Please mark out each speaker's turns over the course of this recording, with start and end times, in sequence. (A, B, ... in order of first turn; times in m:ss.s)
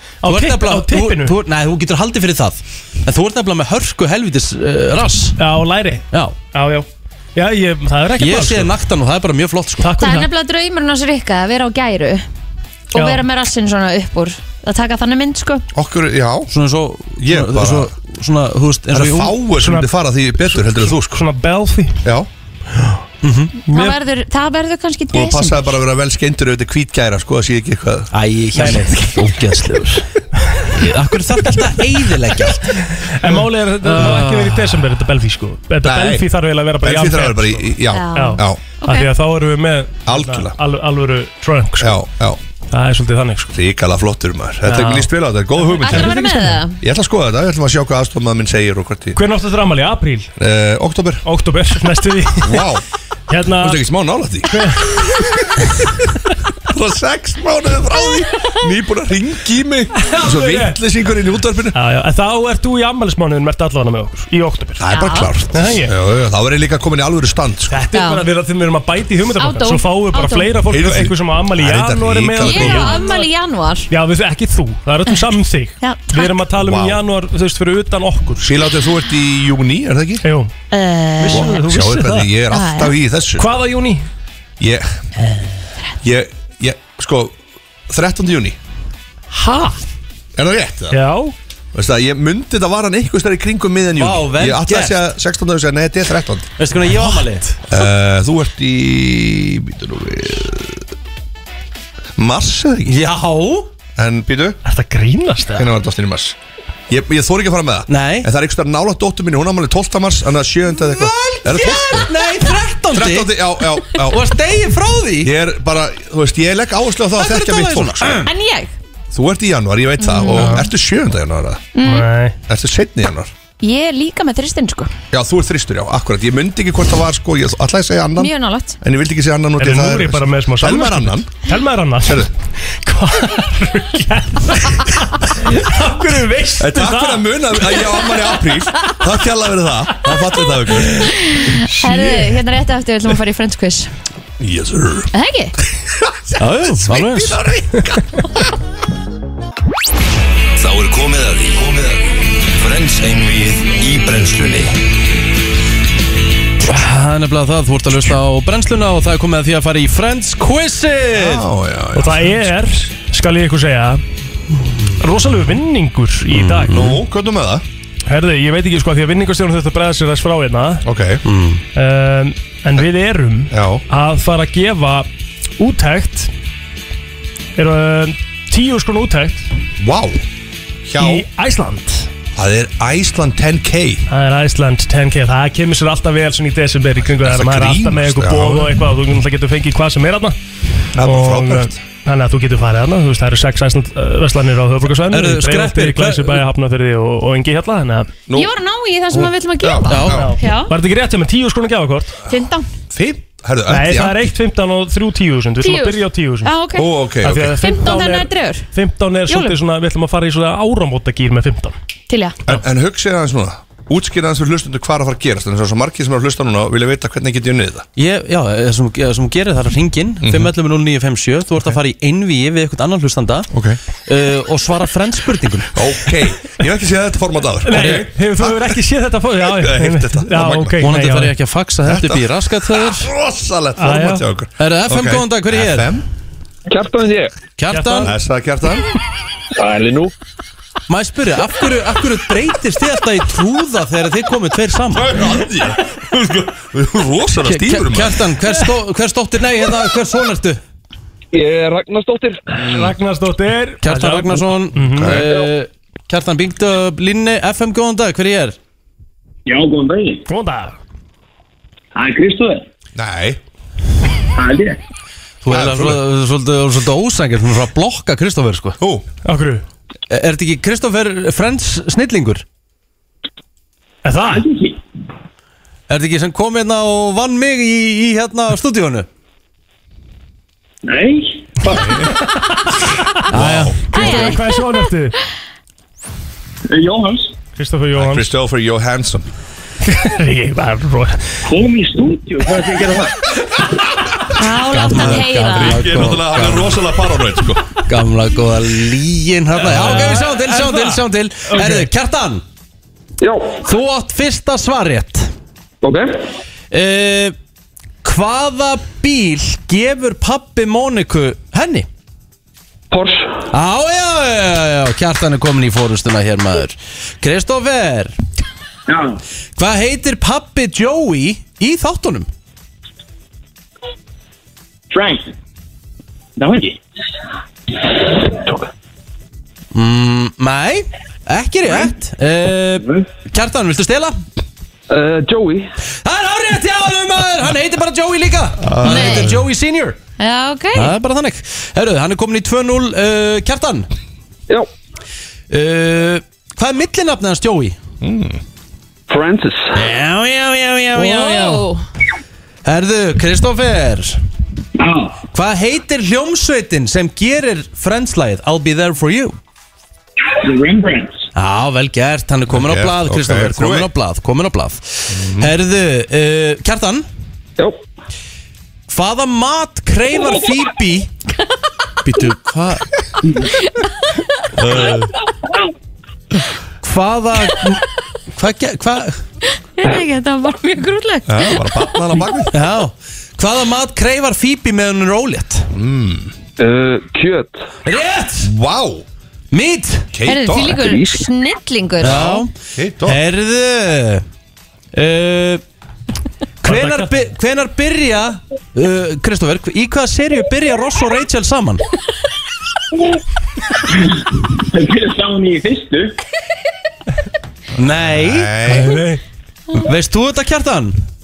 0:00.2-0:01.3 A
0:00.2-0:05.4 B
0:05.4-0:08.7 A
0:08.2-0:09.9 B
0:09.8-0:10.3 A
0:10.0-0:12.2 C
0:12.9-0:15.6 C
0:12.9-0:13.2 A
0:15.7-0:16.5 D
0:16.5-0:19.4 B
0:17.2-0:17.9 D
0:18.9-0:21.2 D
0:19.6-0:22.0 A
0:23.2-0:23.5 B
0:23.7-0:24.0 A
0:23.7-0:25.7 C
0:25.1-0:28.1 D
0:28.1-0:30.1 B
0:28.6-0:28.9 A
0:30.7-0:32.8 B
0:33.0-0:42.0 A
0:33.8-0:34.8 B
0:35.8-0:36.3 D
0:36.8-0:38.6 D
0:37.9-0:39.1 C
0:40.0-0:40.6 D
0:41.8-0:42.4 D
0:42.7-0:43.5 A
0:43.5-0:46.2 D
0:44.6-0:46.6 A
0:45.8-0:46.8 C
0:46.8-0:49.2 D
0:49.1-0:50.3 A
0:50.4-0:51.2 D
0:51.2-0:52.7 A
0:52.4-0:52.8 D
0:53.3-0:53.8 A
0:53.6-0:55.7 D
0:54.5-0:55.1 A
0:56.7-1:01.7 D
1:00.0-1:00.8 A
1:01.7-1:04.9 A
1:04.8-1:07.7 D
1:04.9-1:05.3 C
1:05.5-1:05.9 A
1:07.7-1:13.3 A
1:07.9-1:08.2 C
1:09.4-1:10.5 C
1:10.7-1:13.0 D
1:12.4-1:13.9 C
1:13.9-1:18.6 A
1:15.8-1:16.4 C
1:16.6-1:17.0 D
1:18.4-1:20.2 D
1:20.2-1:20.5 A
1:20.7-1:21.6 C
1:21.2-1:22.3 A
1:21.3-1:23.5 D
1:22.5-1:22.9 C
1:23.4-1:24.0 A
1:24.6-1:24.9 D
1:26.0-1:27.3 D
1:27.9-1:28.6 D
1:29.3-1:29.8 A
1:30.4-1:31.0 D
1:30.9-1:31.3 A
1:31.7-1:36.5 D
1:34.0-1:35.0 B
1:36.6-1:37.5 B
1:37.7-1:40.8 D
1:42.2-1:43.0 D
1:42.8-1:43.7 B
1:44.0-1:44.6 D
1:44.6-1:45.7 A
1:45.5-1:46.3 D
1:46.9-1:52.1 D
1:47.9-1:48.3 B
1:50.7-1:55.3 B
1:52.9-1:54.3 D
1:55.2-1:58.2 D
1:57.1-1:58.3 B
1:58.2-1:58.7 C
1:59.1-2:01.7 D
2:00.0-2:00.6 C
2:00.3-2:00.7 A
2:01.7-2:02.0 C
2:01.8-2:02.4 A
2:02.5-2:03.3 D
2:03.6-2:04.9 C
2:05.1-2:11.4 D
2:08.2-2:08.8 C
2:09.6-2:12.3 A
2:12.0-2:12.3 D
2:12.8-2:18.3 A
2:16.6-2:21.1 D
2:21.1-2:23.9 C
2:21.8-2:22.2 A
2:24.4-2:25.1 D
2:25.1-2:25.5 C
2:26.4-2:28.2 D
2:26.4-2:27.4 B
2:30.6-2:34.8 E
2:36.6-2:41.4 B
2:41.2-2:42.5 D
2:41.9-2:44.0 A
2:45.0-2:46.8 A
2:46.3-2:47.0 B
2:46.7-2:47.6 D
2:48.1-2:50.8 A
2:50.8-2:51.2 D
2:51.2-2:51.6 B
2:51.7-2:55.1 A
2:53.5-2:53.8 D
2:55.6-2:56.3 A
2:57.6-2:59.5 A
2:59.8-3:00.2 D
3:00.9-3:01.2 D
3:01.0-3:02.1 A
3:02.3-3:04.0 D
3:04.1-3:10.4 A
3:07.2-3:08.7 D
3:11.0-3:11.8 D
3:11.0-3:18.1 A
3:15.1-3:16.4 B
3:18.3-3:20.7 C
3:19.6-3:20.3 D
3:19.9-3:20.3 B
3:20.0-3:22.2 A
3:22.3-3:22.6 C
3:22.9-3:24.2 D
3:23.7-3:26.5 A
3:25.6-3:26.9 C
3:26.8-3:27.6 D
3:27.2-3:31.7 A
3:27.6-3:28.6 C
3:29.3-3:29.5 C
3:32.1-3:32.4 C
3:32.4-3:37.8 D
3:38.0-3:43.5 B
3:40.2-3:40.5 D
3:43.5-3:43.8 D
3:44.1-3:45.8 B
3:45.7-3:48.8 D
3:47.6-3:51.3 A
3:47.7-3:48.0 B
3:49.4-3:50.8 D
3:50.8-3:53.1 B
3:51.8-3:56.0 D
3:53.8-3:54.2 A
3:54.6-3:56.0 B
3:56.7-3:57.3 F
3:57.6-3:58.1 B
3:57.7-3:58.2 A
3:58.0-3:58.8 D
3:59.5-4:00.1 F
4:00.9-4:05.2 B
4:04.9-4:08.2 D
4:07.4-4:10.6 B
4:11.3-4:12.4 F
4:12.5-4:15.2 A
4:12.6-4:12.9 D
4:13.8-4:18.6 B
4:15.0-4:15.3 D
4:19.5-4:20.2 G
4:20.3-4:20.8 A
4:21.9-4:22.6 G
4:22.9-4:23.4 D
4:24.4-4:24.8 G
4:25.4-4:28.8 B
4:25.5-4:26.0 D
4:28.8-4:29.0 D
4:29.2-4:29.6 A
4:30.1-4:32.4 B
4:34.0-4:34.5 A
4:34.3-4:34.8 G
4:35.9-4:39.1 B
4:40.8-4:41.4 G
4:41.6-4:42.1 D
4:43.3-4:44.3 B
4:43.3-4:44.2 D
4:43.9-4:44.4 C
4:43.9-4:45.1 A
4:46.7-4:47.3 G
4:47.6-4:48.3 A
4:48.0-4:49.2 D
4:49.8-4:51.3 A
4:51.4-4:53.1 G
4:54.4-4:55.9 C
4:54.7-4:57.0 B
4:55.6-4:57.6 D
4:57.8-5:02.4 B
4:59.7-5:01.0 A
5:01.5-5:01.9 A
5:03.2-5:03.6 F
5:03.6-5:05.3 B
5:05.8-5:06.1 F
5:06.7-5:07.3 B
5:08.0-5:11.9 B
5:12.9-5:13.3 F
5:13.5-5:18.1 B
5:18.9-5:19.2 G
5:19.6-5:22.3 B
5:24.9-5:25.3 G
5:26.4-5:26.8 G
5:29.7-5:34.2 B
5:34.9-5:35.6 F
5:36.0-5:40.0 B
5:38.6-5:39.4 D
5:38.8-5:39.3 C
5:40.2-5:40.9 C
5:40.7-5:43.9 B
5:45.5-5:47.8 B
5:48.0-5:48.4 D
5:49.1-5:49.7 F
5:49.7-5:51.6 B
5:50.9-5:51.8 C
5:52.6-5:54.2 B
5:54.8-5:55.2 G
5:55.3-5:59.4 B
6:00.4-6:01.2 G
6:01.3-6:07.0 B
6:02.5-6:03.9 D
6:05.1-6:05.5 D
6:08.9-6:11.1 B
6:12.0-6:12.9 B
6:14.6-6:15.1 D
6:16.8-6:19.2 B
6:19.8-6:21.9 C
6:21.2-6:22.6 D
6:22.5-6:25.7 B
6:25.7-6:26.3 D
6:26.6-6:27.6 F
6:27.8-6:28.5 B
6:28.4-6:29.0 D
6:29.5-6:30.1 B
6:30.1-6:30.9 D
6:30.2-6:32.2 C
6:30.7-6:31.2 F
6:32.0-6:34.2 B
6:32.0-6:33.2 D
6:34.9-6:35.6 B
6:36.6-6:41.8 B
6:36.6-6:37.1 A
6:44.6-6:46.2 G
6:47.8-6:48.5 B
6:48.0-6:49.0 D
6:48.6-6:49.2 A
6:49.7-6:51.0 B